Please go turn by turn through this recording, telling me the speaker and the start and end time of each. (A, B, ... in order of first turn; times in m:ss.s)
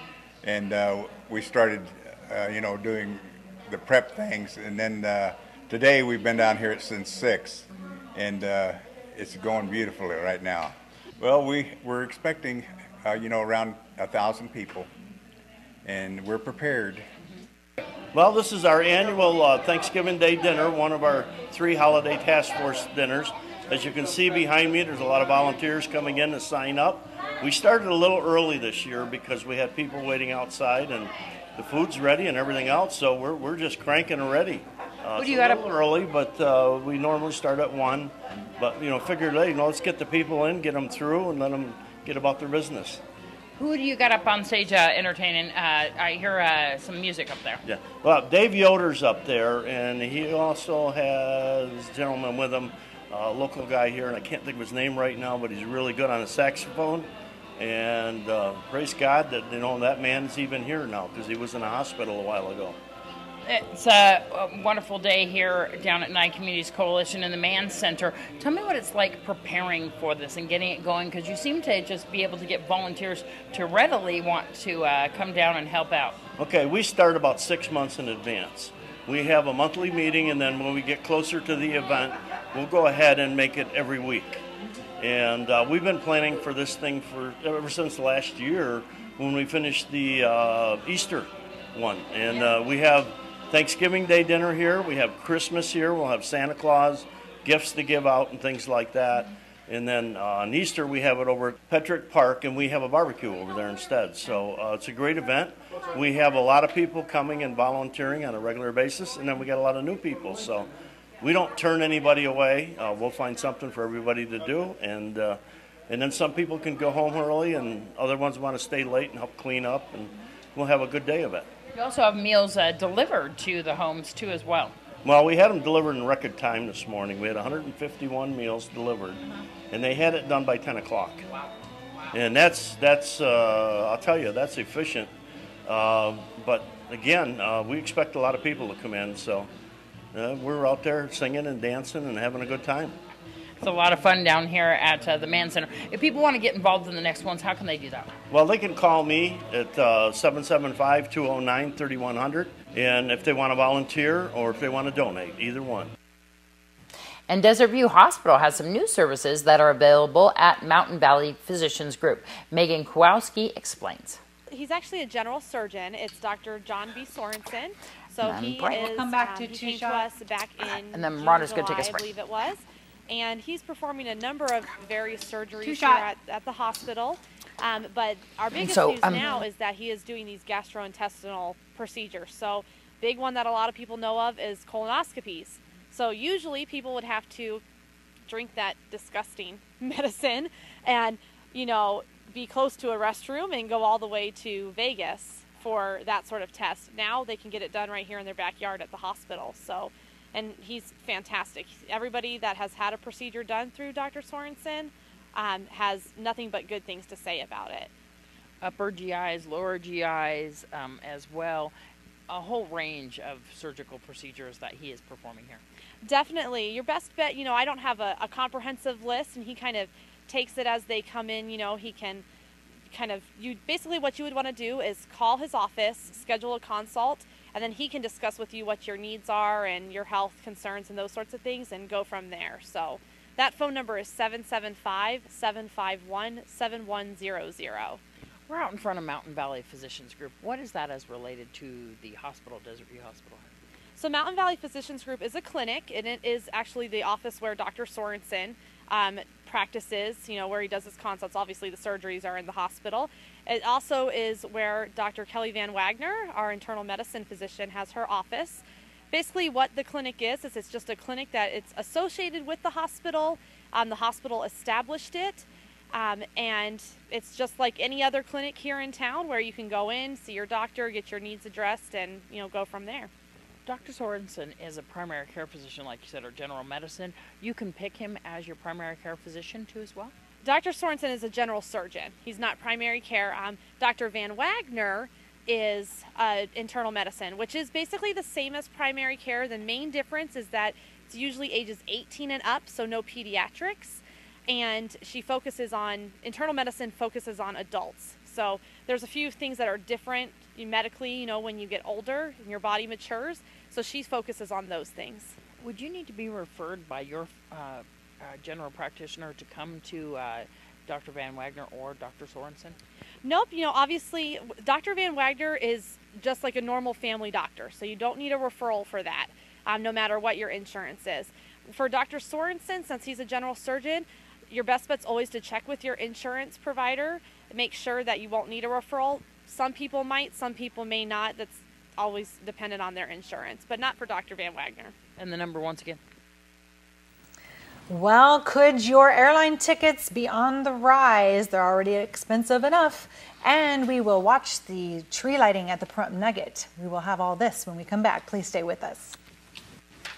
0:00.4-0:14.9 A
0:15.8-0:17.0 A
0:18.1-0:35.1 B
0:35.2-0:35.6 C
0:35.8-0:38.1 B
0:38.6-0:43.0 B
0:43.6-0:47.6 C
0:47.9-0:57.0 B
0:57.6-1:02.7 B
1:03.4-1:16.2 C
1:16.4-1:24.3 B
1:25.0-1:31.2 B
1:31.8-1:50.6 B
1:51.2-1:55.3 B
1:55.9-2:01.4 B
2:01.7-2:04.7 C
2:05.1-2:09.1 B
2:09.7-2:11.2 B
2:12.2-2:15.0 B
2:15.7-2:19.4 B
2:20.2-2:22.8 B
2:23.6-2:28.1 C
2:28.3-2:35.9 B
2:37.3-2:44.2 C
2:44.5-3:07.6 D
2:48.2-2:48.9 C
2:48.7-2:50.1 E
2:50.9-2:52.0 C
2:55.6-2:56.0 E
2:58.6-2:59.4 C
3:08.3-3:27.9 D
3:28.6-3:31.7 C
3:32.3-3:35.6 C
3:36.0-3:42.2 D
3:42.9-3:58.0 D
3:58.5-4:03.5 C
4:04.0-4:33.1 D
4:33.6-4:40.1 C
4:40.4-5:05.3 D
5:05.6-5:12.8 C
5:13.2-5:34.9 D
5:35.2-5:36.0 C
5:37.9-5:49.2 E